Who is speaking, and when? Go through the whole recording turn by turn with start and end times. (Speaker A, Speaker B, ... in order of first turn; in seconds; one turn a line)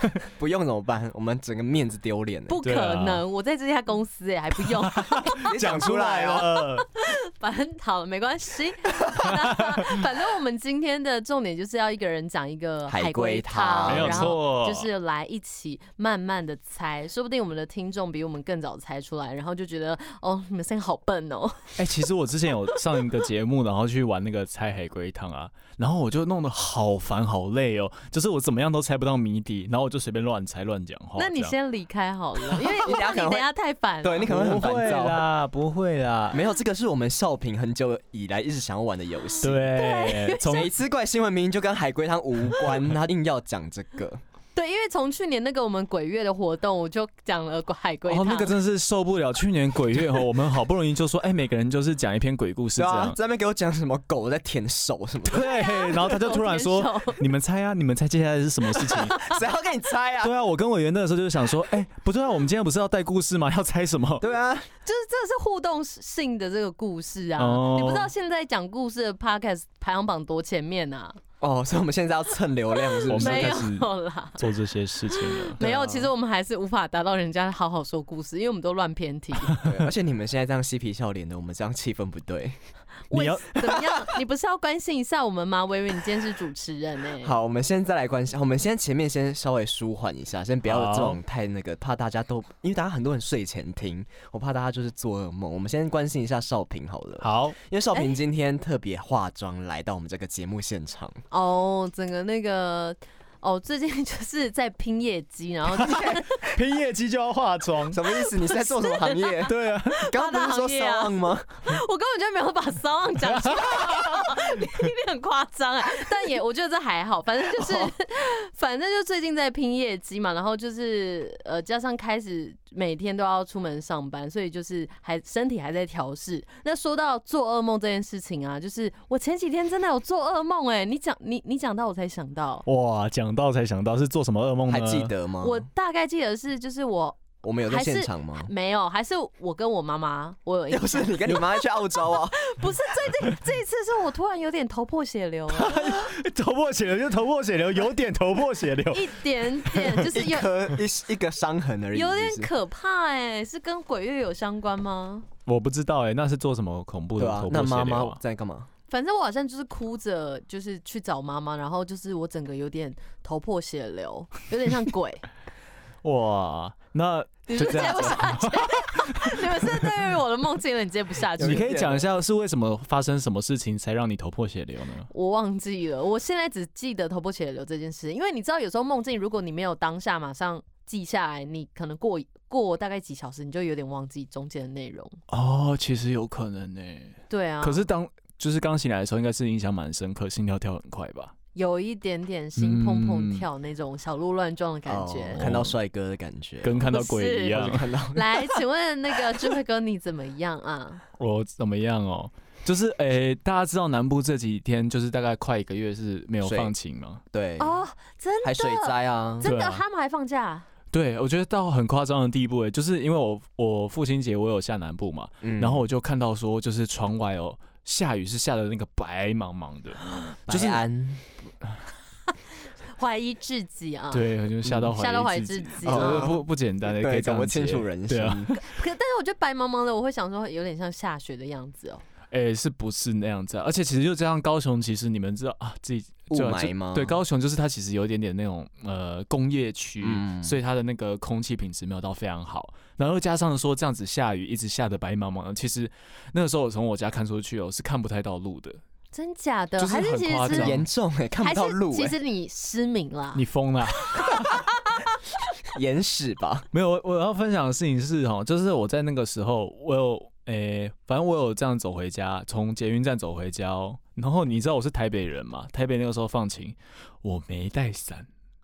Speaker A: 0.2-2.6
Speaker B: 2.5-5.5
Speaker C: 2.6-3.2
Speaker C: 4.7-6.8
Speaker A: 5.4-6.5
Speaker B: 6.8-21.8
Speaker C: 9.2-9.8
Speaker A: 12.9-14.4
Speaker C: 13.9-14.9
Speaker C: 21.8-31.5
Speaker B: 31.2-34.3
Speaker A: 32.5-33.5
Speaker A: 34.0-35.2
Speaker C: 34.2-36.4
Speaker A: 36.3-39.6
Speaker B: 39.4-40.6
Speaker C: 39.4-40.7
Speaker A: 40.4-44.2
Speaker B: 44.5-48.5
Speaker C: 48.1-53.1
Speaker A: 52.8-55.6
Speaker B: 55.3-57.2
Speaker C: 55.3-59.2
Speaker A: 58.7-60.3
Speaker C: 60.2-64.3
Speaker A: 64.2-64.7
Speaker B: 64.8-71.2
Speaker C: 67.4-68.1
Speaker A: 71.4-73.7
Speaker B: 72.9-74.4
Speaker C: 73.1-75.6
Speaker B: 75.1-79.6
Speaker A: 75.6-76.1
Speaker C: 79.5-79.9
Speaker A: 79.6-82.6
Speaker B: 83.1-87.3
Speaker C: 83.1-83.4
Speaker A: 87.2-101.2
Speaker C: 90.7-91.2
Speaker C: 97.2-97.6
Speaker B: 101.3-106.6
Speaker C: 105.8-108.0
Speaker A: 107.9-109.5
Speaker B: 108.2-132.6
Speaker C: 109.5-110.1
Speaker A: 110.1-111.8
Speaker C: 113.3-114.5
Speaker C: 132.7-135.1
Speaker A: 134.7-135.7
Speaker B: 135.4-145.8
Speaker A: 137.4-138.5
Speaker A: 140.7-142.7
Speaker C: 145.6-150.0
Speaker A: 145.7-146.1
Speaker B: 148.9-150.5
Speaker A: 150.0-152.5
Speaker B: 151.9-155.3
Speaker C: 155.4-158.2
Speaker A: 157.2-158.7
Speaker B: 158.9-165.3
Speaker C: 166.0-170.0
Speaker B: 167.5-171.8
Speaker A: 167.6-168.3
Speaker A: 171.4-172.1
Speaker C: 171.4-175.1
Speaker B: 175.1-185.2
Speaker C: 185.3-191.3
Speaker B: 187.3-187.8
Speaker B: 191.5-195.4
Speaker C: 192.6-193.4
Speaker A: 194.9-196.9
Speaker C: 195.3-195.8
Speaker C: 196.6-197.8
Speaker B: 196.9-201.0
Speaker A: 197.4-198.6
Speaker C: 201.2-207.2
Speaker A: 206.4-206.7
Speaker A: 207.3-207.8
Speaker B: 207.6-210.7
Speaker A: 208.4-209.5
Speaker C: 209.4-209.8
Speaker C: 210.9-220.8
Speaker A: 215.4-215.9
Speaker A: 220.5-221.3
Speaker B: 222.9-224.3
Speaker C: 224.1-228.6
Speaker A: 224.6-224.9
Speaker B: 224.9-226.3
Speaker A: 225.8-228.6
Speaker B: 228.5-232.0
Speaker C: 232.3-248.8
Speaker A: 236.3-237.2
Speaker A: 240.0-240.6
Speaker B: 249.1-250.8
Speaker C: 249.8-250.9
Speaker A: 250.5-252.2
Speaker B: 251.4-253.4
Speaker C: 253.3-254.6
Speaker A: 255.7-256.7
Speaker C: 256.7-268.3